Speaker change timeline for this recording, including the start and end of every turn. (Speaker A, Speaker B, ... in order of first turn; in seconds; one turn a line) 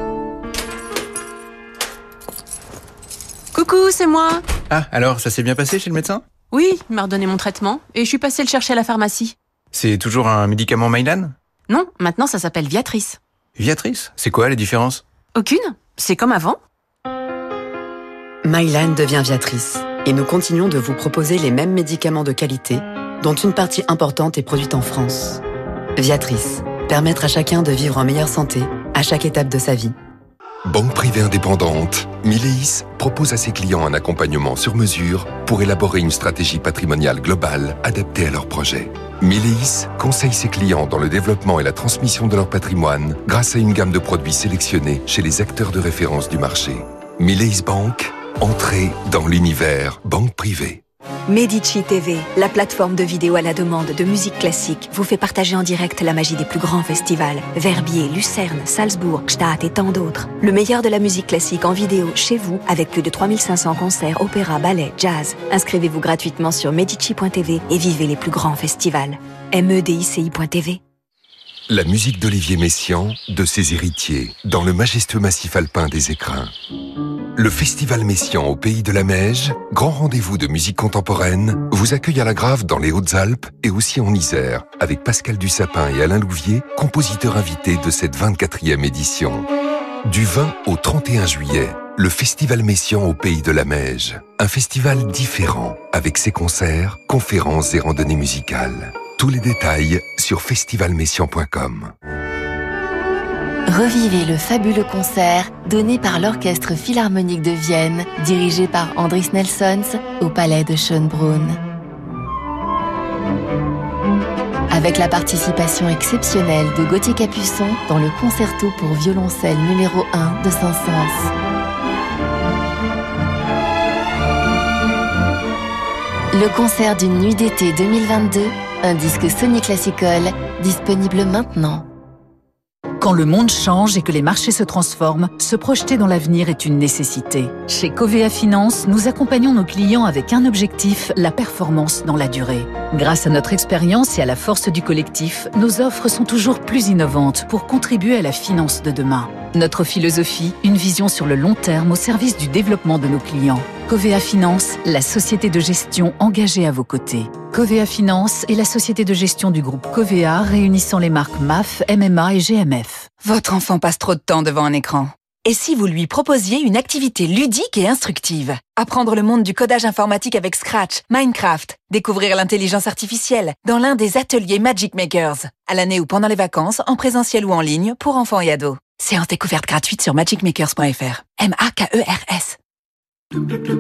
Speaker A: 3.5-4.5
Speaker B: 4.7-6.3
Speaker A: 6.5-9.3
Speaker B: 9.7-11.4
Speaker A: 11.7-13.2
Speaker B: 13.6-15.0
Speaker A: 15.3-16.6
Speaker C: 18.4-25.4
Speaker C: 26.0-29.9
Speaker D: 30.7-50.8
Speaker E: 51.3-70.8
Speaker D: 71.7-76.5
Speaker D: 77.4-89.5
Speaker D: 90.0-101.9
Speaker F: 103.7-111.6
Speaker F: 114.7-121.3
Speaker F: 126.3-131.9
Speaker G: 133.0-163.1
Speaker H: 163.2-182.6